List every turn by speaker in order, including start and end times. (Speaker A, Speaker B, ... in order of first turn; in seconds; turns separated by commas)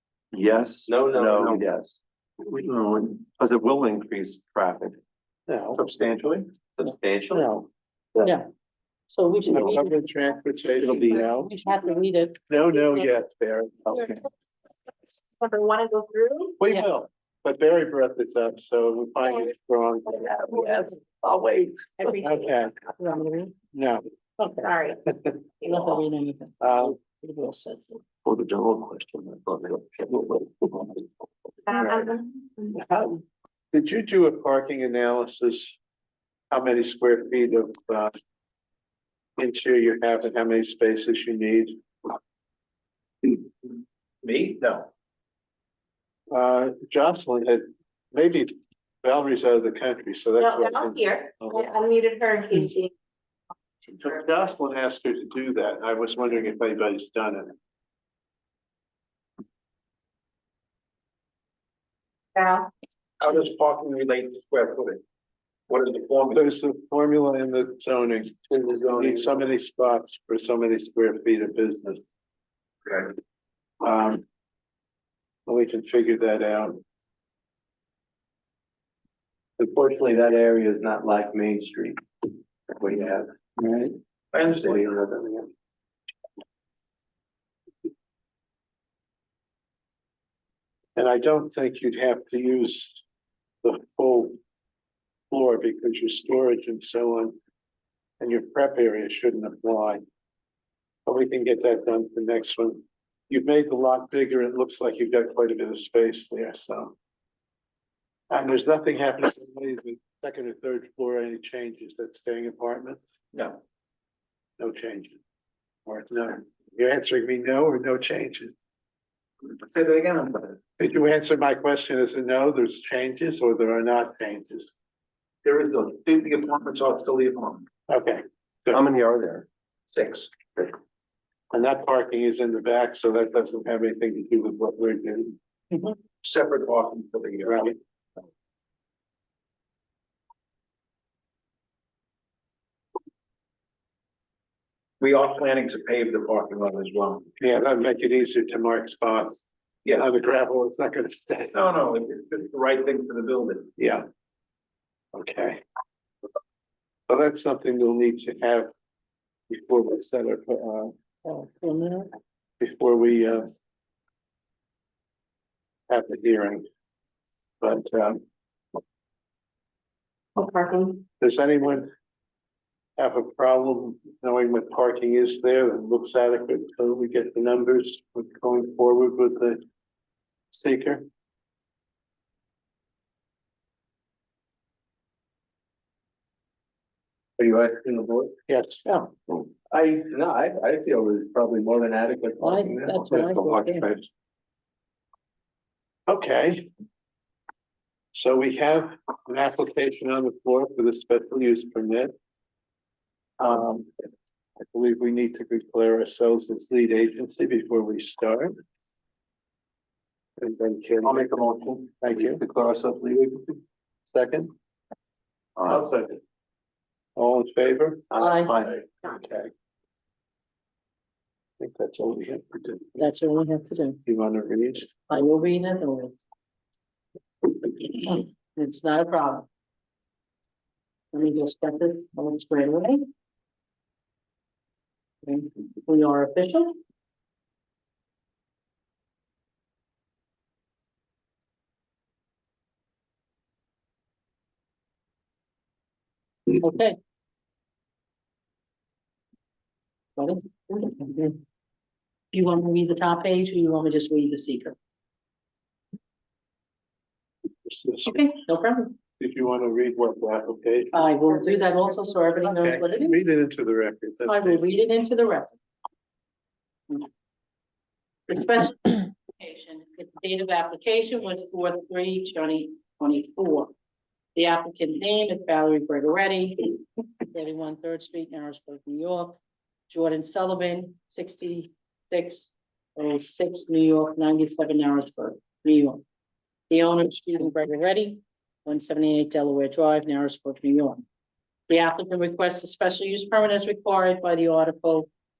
Speaker A: 0.3-2.0, Speaker B: 0.8-1.6, Speaker A: 3.2-5.0, Speaker C: 5.5-5.8, Speaker D: 5.8-6.5, Speaker A: 6.8-7.5, Speaker E: 8.2-8.5, Speaker E: 9.1-12.4, Speaker C: 9.5-11.5, Speaker C: 12.5-14.1, Speaker F: 12.7-13.1, Speaker F: 13.9-14.2, Speaker F: 15.1-16.5, Speaker C: 16.6-20.3, Speaker B: 20.3-20.7, Speaker F: 20.5-20.8, Speaker B: 21.3-21.7, Speaker F: 22.0-22.6, Speaker C: 22.2-22.8, Speaker E: 23.0-23.5, Speaker C: 23.7-24.0, Speaker E: 24.4-24.7, Speaker F: 24.6-25.0, Speaker C: 25.1-25.4, Speaker E: 25.6-28.0, Speaker C: 26.6-26.9, Speaker A: 28.2-30.3, Speaker F: 31.6-32.7, Speaker C: 32.7-35.8, Speaker C: 36.5-38.1, Speaker C: 39.4-41.8, Speaker D: 44.2-44.9, Speaker C: 46.3-48.5, Speaker C: 49.0-51.7, Speaker F: 50.4-52.9, Speaker C: 53.9-57.5, Speaker F: 62.3-62.7, Speaker D: 63.2-65.0, Speaker D: 65.7-66.4, Speaker C: 66.3-68.3, Speaker B: 68.5-69.4, Speaker C: 68.9-72.0, Speaker D: 72.8-73.1, Speaker C: 73.8-74.2, Speaker C: 75.5-76.8, Speaker B: 79.6-82.0, Speaker B: 82.8-83.3, Speaker D: 84.3-84.9, Speaker B: 84.6-84.9, Speaker C: 91.0-93.0, Speaker C: 93.6-94.4, Speaker C: 95.3-97.3, Speaker C: 98.2-100.0, Speaker C: 101.0-106.9, Speaker C: 108.3-113.0, Speaker D: 113.3-113.6, Speaker C: 114.6-115.2, Speaker C: 115.8-118.5, Speaker D: 119.5-120.6, Speaker C: 120.8-124.7, Speaker D: 125.4-127.6, Speaker C: 127.9-128.8, Speaker A: 128.7-129.5, Speaker D: 129.9-130.4, Speaker C: 131.5-135.3, Speaker D: 136.2-137.7, Speaker C: 137.4-137.7, Speaker D: 145.0-147.3, Speaker C: 147.4-151.6, Speaker D: 151.5-153.7, Speaker C: 153.8-154.0, Speaker C: 155.1-155.6, Speaker C: 157.1-158.7, Speaker C: 159.5-160.9, Speaker E: 161.2-162.1, Speaker C: 162.6-163.5, Speaker C: 165.9-166.6, Speaker C: 167.6-168.2, Speaker F: 170.3-171.0, Speaker C: 171.2-171.9, Speaker C: 173.0-179.6, Speaker C: 180.5-181.0, Speaker B: 187.4-188.3, Speaker C: 188.5-188.8, Speaker E: 188.8-189.1, Speaker B: 189.7-194.1, Speaker E: 192.4-193.9, Speaker C: 196.1-196.7, Speaker C: 198.1-202.1, Speaker C: 203.4-203.9, Speaker C: 204.6-208.5, Speaker C: 210.4-211.5, Speaker D: 211.0-213.5, Speaker C: 212.0-212.4, Speaker C: 214.1-214.5, Speaker B: 215.7-216.2, Speaker C: 217.2-218.1, Speaker B: 218.1-218.8, Speaker E: 218.2-218.6, Speaker C: 219.0-219.5, Speaker C: 221.6-223.0, Speaker E: 223.0-224.0, Speaker C: 224.1-224.9, Speaker E: 225.1-226.2, Speaker E: 227.8-229.4, Speaker E: 231.1-233.1, Speaker E: 235.2-236.7, Speaker E: 246.5-246.9, Speaker E: 250.2-251.4, Speaker E: 252.3-254.7, Speaker C: 257.6-258.2, Speaker E: 258.0-258.9, Speaker C: 259.2-261.2, Speaker E: 260.9-263.2, Speaker C: 262.4-264.7, Speaker E: 264.3-265.6, Speaker E: 268.3-273.7, Speaker E: 274.3-279.4, Speaker E: 279.9-286.0, Speaker E: 286.7-291.0, Speaker E: 291.7-295.1